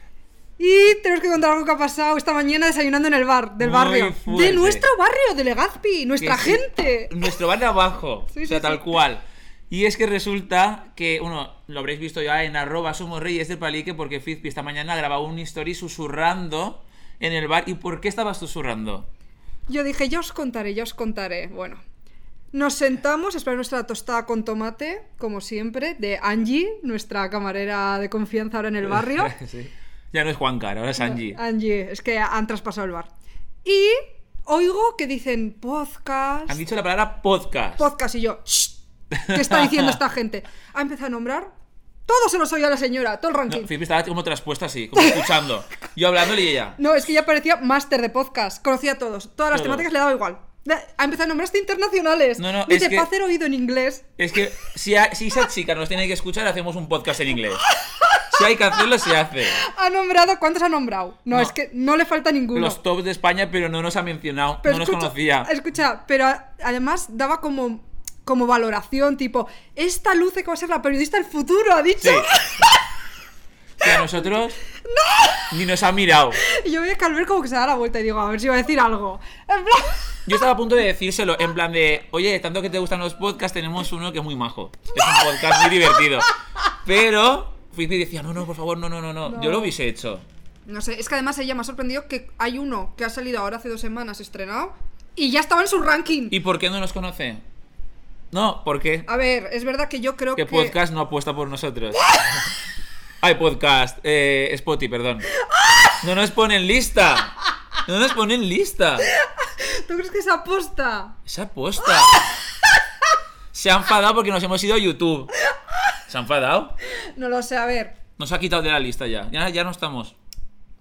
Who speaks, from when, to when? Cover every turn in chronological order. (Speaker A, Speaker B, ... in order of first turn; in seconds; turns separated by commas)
Speaker A: 0.6-7.1, Speaker B: 3.6-4.9, Speaker B: 6.2-19.1, Speaker A: 8.3-8.8, Speaker A: 19.7-21.8, Speaker A: 22.5-29.3, Speaker B: 28.8-31.4, Speaker A: 31.0-33.1, Speaker A: 33.6-36.6, Speaker B: 36.5-37.9, Speaker A: 37.8-41.5, Speaker B: 39.1-40.0, Speaker A: 42.1-43.7, Speaker B: 43.5-46.8, Speaker A: 46.8-54.1, Speaker B: 49.5-49.9, Speaker B: 52.4-53.1, Speaker B: 54.2-57.6, Speaker B: 58.3-59.6, Speaker A: 59.6-62.8, Speaker B: 62.5-65.5, Speaker A: 64.6-72.7, Speaker B: 72.0-72.3, Speaker B: 73.8-74.6, Speaker A: 74.8-75.4, Speaker B: 75.5-76.4, Speaker A: 76.5-80.2, Speaker B: 80.2-86.3, Speaker B: 86.8-90.2, Speaker A: 89.3-89.7, Speaker A: 90.7-96.4, Speaker B: 96.3-97.4, Speaker B: 98.3-99.1, Speaker A: 99.1-100.8, Speaker B: 100.4-102.0, Speaker B: 103.2-105.3, Speaker B: 106.0-109.1, Speaker A: 109.2-111.2, Speaker B: 111.3-112.3, Speaker B: 113.5-115.3, Speaker B: 116.1-116.8, Speaker A: 117.1-118.0, Speaker B: 118.2-120.2